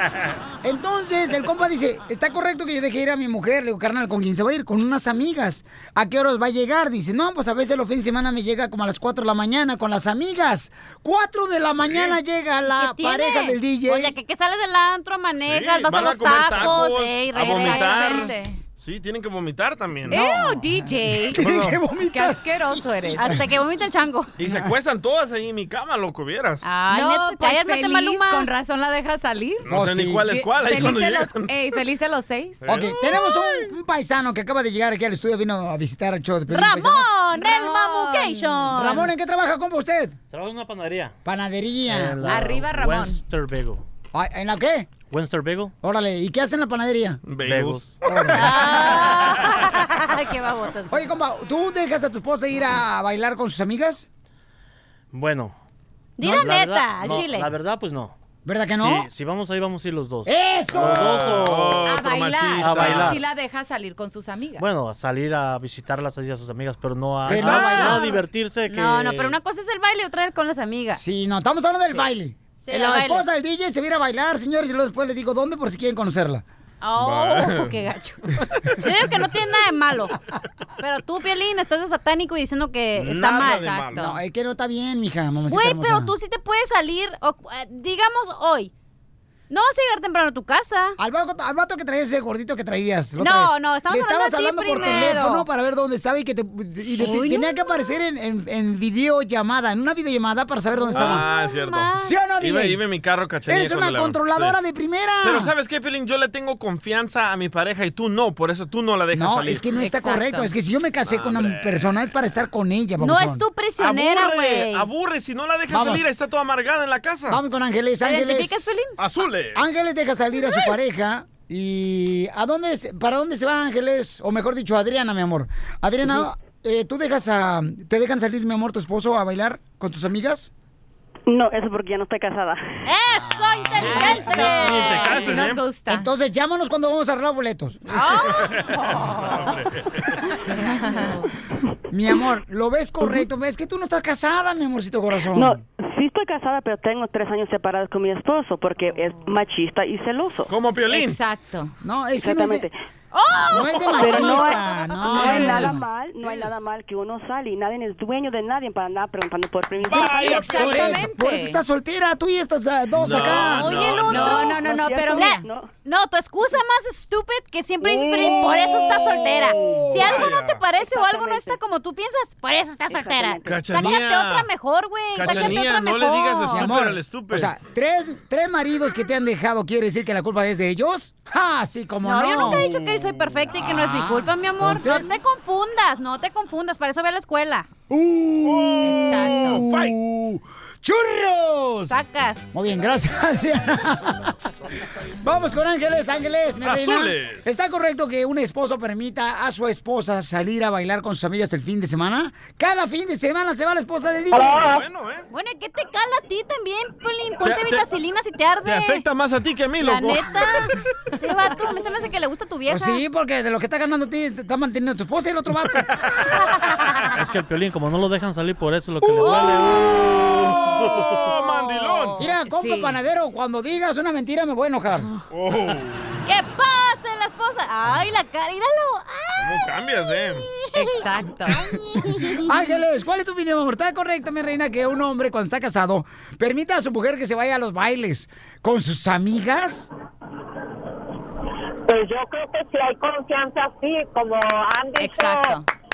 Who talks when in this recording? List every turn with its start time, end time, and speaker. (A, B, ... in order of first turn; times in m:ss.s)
0:00.6-0:14.2 A
0:11.8-0:12.2 B
0:12.7-0:18.3 C
0:15.4-0:20.2 B
0:17.4-0:18.6 D
0:20.1-0:21.6 D
0:20.1-0:20.7 A
0:21.3-0:23.4 A
0:21.4-0:21.8 B
0:22.1-0:23.4 D
0:23.2-0:24.3 C
0:24.4-0:26.6 B
0:26.6-0:28.5 C
0:26.8-0:29.7 D
0:29.6-0:31.5 B
0:29.7-0:30.4 A
0:30.3-0:32.6 D
0:32.6-0:33.0 B
0:32.7-0:37.1 A
0:33.1-0:33.6 C
0:36.5-0:39.0 C
0:37.4-0:38.7 D
0:38.7-0:40.2 A
0:40.3-0:41.2 E
0:41.2-0:42.4 A
0:41.9-0:43.8 E
0:42.3-0:43.2 D
0:44.1-0:44.9 A
0:45.1-0:45.7 E
0:45.8-0:47.2 A
0:47.3-0:48.8 B
0:47.4-0:49.0 E
0:48.0-0:48.7 A
0:48.4-0:51.1 C
0:50.9-0:54.1 A
0:55.1-0:55.6 E
0:56.2-0:57.5 C
0:56.2-0:58.1 E
0:58.4-0:59.1 A
0:58.7-1:02.0 E
1:00.2-1:01.4 A
1:00.7-1:03.2 B
1:01.9-1:04.6 D
1:02.5-1:03.2 E
1:04.6-1:09.4 E
1:07.3-1:08.2 A
1:07.4-1:08.1 C
1:08.7-1:11.0 C
1:10.9-1:16.4 A
1:12.6-1:13.2 C
1:16.8-1:18.2 C
1:17.0-1:17.7 B
1:18.8-1:20.2 C
1:20.8-1:23.8 C
1:23.0-1:24.1 B
1:23.4-1:24.1 D
1:24.0-1:26.2 A
1:25.5-1:28.7 C
1:29.5-1:31.0 C
1:31.0-1:41.2 A
1:33.2-1:35.5 C
1:37.0-1:37.8 C
1:40.8-1:42.1 C
1:40.9-1:44.6 B
1:42.0-1:42.8 A
1:43.5-1:45.5 A
1:45.2-1:49.7 B
1:49.1-1:53.4 A
1:49.7-1:50.5 D
1:51.1-1:51.9 B
1:53.0-1:54.9 C
1:53.8-1:57.4 B
1:55.7-1:56.1 A
1:57.3-1:58.8 A
1:58.0-1:59.0 C
1:59.0-1:59.6 B
1:59.6-2:10.5 A
2:11.3-2:12.6 F
2:12.9-2:15.4 C
2:13.8-2:14.1 A
2:13.8-2:16.1 D
2:13.9-2:15.6 B
2:15.9-2:18.0 A
2:17.9-2:19.6 C
2:18.3-2:20.2 B
2:20.6-2:21.2 D
2:20.6-2:21.1 C
2:21.9-2:25.6 A
2:25.3-2:30.5 F
2:30.5-2:31.2 B
2:30.9-2:31.7 D
2:31.8-2:32.7 A
2:32.2-2:32.7 F
2:33.1-2:35.7 C
2:33.5-2:35.8 A
2:34.0-2:40.9 F
2:39.8-2:41.0 B
2:40.2-2:41.6 D
2:40.5-2:43.8 A
2:43.0-2:44.4 B
2:43.1-2:56.8 C
2:44.0-2:45.4 D
2:44.1-2:45.7 F
2:49.8-2:50.6 B
2:50.8-2:51.6 F
2:52.9-2:53.9 F
2:53.5-2:54.5 B
2:55.1-2:57.5 B
2:56.5-3:02.7 A
3:02.0-3:07.7 C
3:02.6-3:03.1 B
3:03.5-3:05.2 A
3:07.9-3:12.0 A
3:08.4-3:10.0 B
3:08.8-3:09.6 D
3:11.9-3:12.5 C
3:12.5-3:14.3 A
3:15.2-3:24.7 A
3:16.6-3:17.4 B
3:24.4-3:24.7 G
3:24.6-3:25.3 B
3:25.3-3:29.0 C
3:27.4-3:27.9 B
3:28.6-3:30.4 B
3:29.8-3:33.0 C
3:32.7-3:35.9 A
3:36.5-3:37.0 C
3:37.1-3:40.1 E
3:39.1-3:39.7 C
3:40.5-3:42.2 B
3:42.2-3:45.1 A
3:42.5-3:43.0 D
3:45.3-3:46.2 B
3:46.2-3:49.7 C
3:49.4-3:50.5 B
3:50.2-3:52.7 C
3:50.7-3:51.7 D
3:52.2-3:59.9 A
4:01.9-4:05.6 G
4:05.0-4:05.7 D